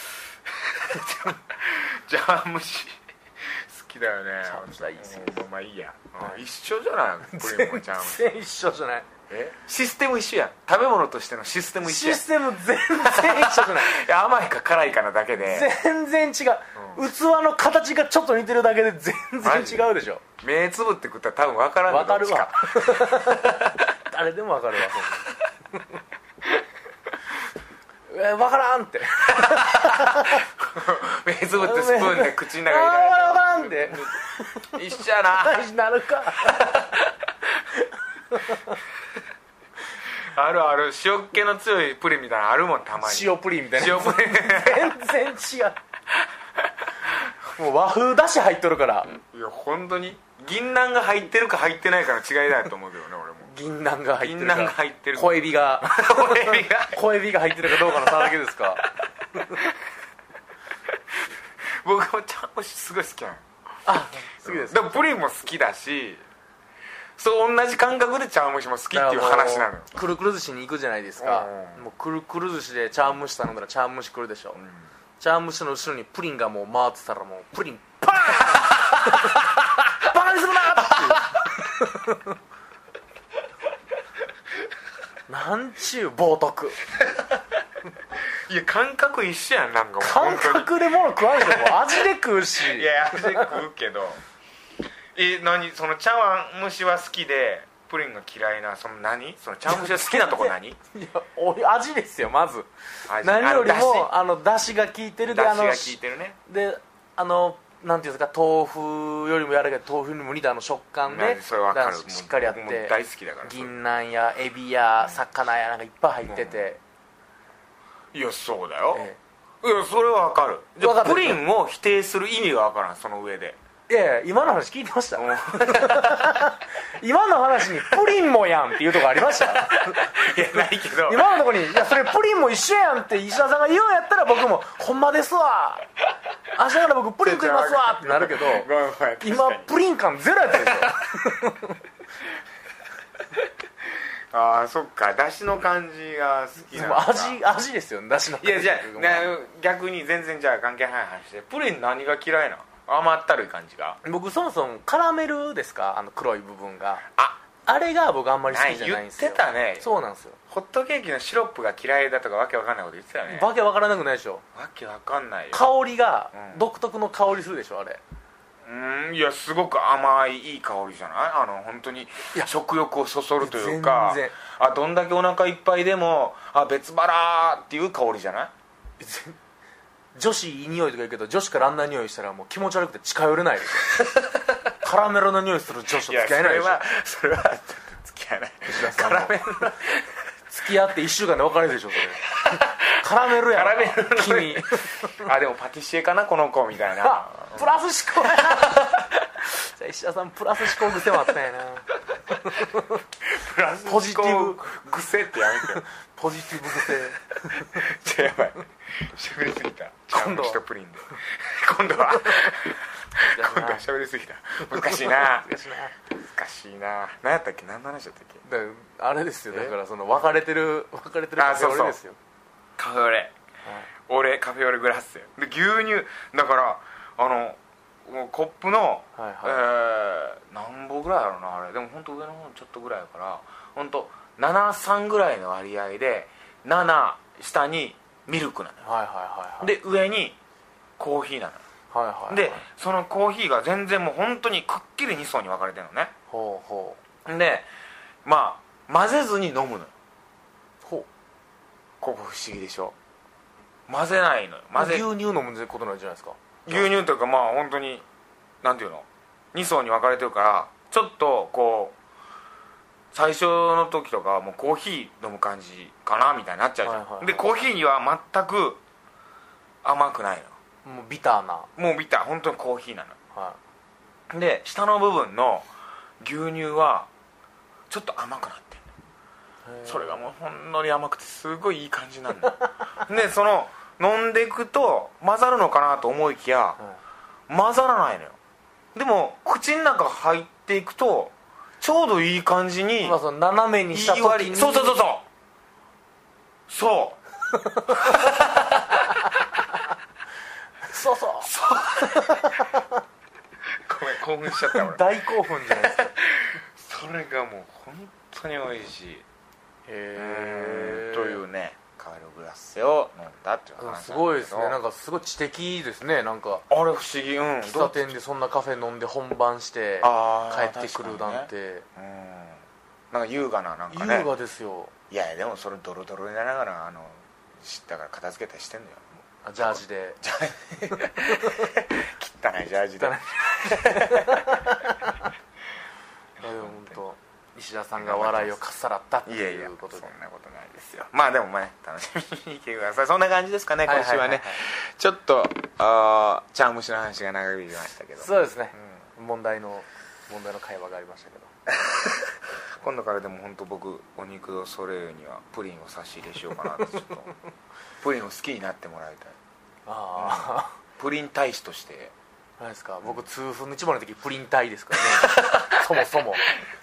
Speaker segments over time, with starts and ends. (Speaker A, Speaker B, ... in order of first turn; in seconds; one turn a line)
Speaker A: 0.5-8.2
Speaker B: 4.5-5.4
Speaker B: 7.3-9.1
Speaker A: 9.3-12.2
Speaker B: 11.8-14.0
Speaker A: 13.0-15.7
Speaker B: 15.4-20.2
Speaker A: 19.4-19.9
Speaker A: 20.4-23.9
Speaker B: 21.9-25.8
Speaker B: 28.1-30.4
Speaker A: 29.3-35.6
Speaker B: 31.6-36.9
Speaker A: 36.4-37.1
Speaker B: 38.3-38.7
Speaker A: 40.2-45.0
Speaker B: 43.0-45.8
Speaker B: 47.5-49.1
Speaker A: 49.3-53.5
Speaker B: 53.5-58.8
Speaker A: 54.2-57.0
Speaker A: 57.8-58.3
Speaker A: 59.4-59.8
Speaker A: 60.9-61.3
Speaker A: 61.8-63.4
Speaker B: 63.9-64.8
Speaker A: 64.4-66.2
Speaker A: 67.2-69.9
Speaker B: 68.9-74.6
Speaker A: 71.2-71.8
Speaker A: 74.5-74.8
Speaker B: 75.2-82.4
Speaker B: 85.3-86.8
Speaker A: 88.5-91.8
Speaker B: 90.0-93.5
Speaker A: 92.6-94.2
Speaker A: 95.2-100.8
Speaker B: 99.7-116.8
Speaker A: 103.1-104.1
Speaker A: 105.3-106.4
Speaker A: 111.1-113.7
Speaker A: 116.3-116.7
Speaker A: 118.1-119.1
Speaker A: 119.6-123.6
Speaker B: 120.8-121.4
Speaker B: 123.9-135.9
Speaker A: 125.2-126.3
Speaker A: 129.3-131.3
Speaker B: 136.5-138.7
Speaker A: 137.2-139.7
Speaker B: 139.2-141.8
Speaker A: 144.3-147.4
Speaker B: 146.7-149.3
Speaker A: 148.4-154.0
Speaker B: 154.0-157.0
Speaker B: 157.7-160.4
Speaker A: 158.5-159.9
Speaker A: 160.5-163.5
Speaker B: 163.3-164.4
Speaker A: 164.6-165.7
Speaker B: 165.5-168.0
Speaker A: 166.3-166.6
Speaker A: 168.7-178.5
Speaker B: 173.4-174.4
Speaker B: 179.0-179.4
Speaker B: 180.2-184.1
Speaker B: 184.8-186.8
Speaker A: 186.1-190.1
Speaker B: 188.7-189.4
Speaker B: 190.5-192.3
Speaker A: 192.2-197.7
Speaker B: 193.0-194.9
Speaker B: 197.0-201.9
Speaker B: 202.4-203.0
Speaker A: 203.2-205.9
Speaker B: 203.8-204.6
Speaker B: 205.6-207.8
Speaker A: 207.5-215.5
Speaker B: 210.1-210.6
Speaker B: 213.3-213.9
Speaker B: 214.7-215.9
Speaker A: 216.1-218.4
Speaker B: 218.4-222.2
Speaker A: 221.4-222.0
Speaker A: 222.8-223.3
Speaker A: 224.1-238.8
Speaker B: 229.2-229.6
Speaker B: 238.8-239.7
Speaker A: 239.6-240.4
Speaker A: 241.0-241.6
Speaker B: 241.9-242.6
Speaker A: 242.3-246.1
Speaker B: 246.3-247.0
Speaker A: 247.2-247.7
Speaker A: 248.2-249.9
Speaker A: 252.0-252.9
Speaker A: 253.9-255.1
Speaker B: 254.8-256.9
Speaker A: 256.7-258.1
Speaker A: 258.6-262.0
Speaker A: 263.1-268.8
Speaker B: 266.9-267.5
Speaker A: 269.8-270.6
Speaker B: 270.8-271.7
Speaker A: 271.8-273.2
Speaker B: 273.3-273.6
Speaker A: 274.3-275.7
Speaker A: 276.2-277.1
Speaker A: 277.9-278.8
Speaker B: 279.6-280.3
Speaker A: 279.9-286.8
Speaker A: 287.5-288.4
Speaker A: 288.9-293.2
Speaker B: 293.0-295.0
Speaker A: 293.9-295.2
Speaker A: 296.7-297.2
Speaker A: 297.8-299.0
Speaker B: 297.9-298.2
Speaker B: 300.8-302.9
Speaker A: 301.4-302.4
Speaker A: 303.9-305.0
Speaker B: 304.6-306.1
Speaker A: 305.9-309.2
Speaker B: 309.9-311.4
Speaker A: 310.1-314.8
Speaker B: 313.8-316.7
Speaker A: 316.7-318.1
Speaker B: 317.6-321.9
Speaker A: 320.0-324.3
Speaker B: 323.9-324.9
Speaker A: 325.1-329.1
Speaker B: 329.4-330.2
Speaker A: 329.6-334.6
Speaker B: 331.4-331.7
Speaker B: 333.0-334.9
Speaker B: 336.4-340.1
Speaker A: 336.4-336.9
Speaker A: 338.0-338.6
Speaker A: 339.3-349.0
Speaker B: 343.9-344.6
Speaker B: 348.2-351.5
Speaker A: 351.7-357.3
Speaker A: 358.0-359.4
Speaker B: 359.9-360.8
Speaker A: 360.2-362.1
Speaker B: 362.6-366.4
Speaker A: 365.2-365.8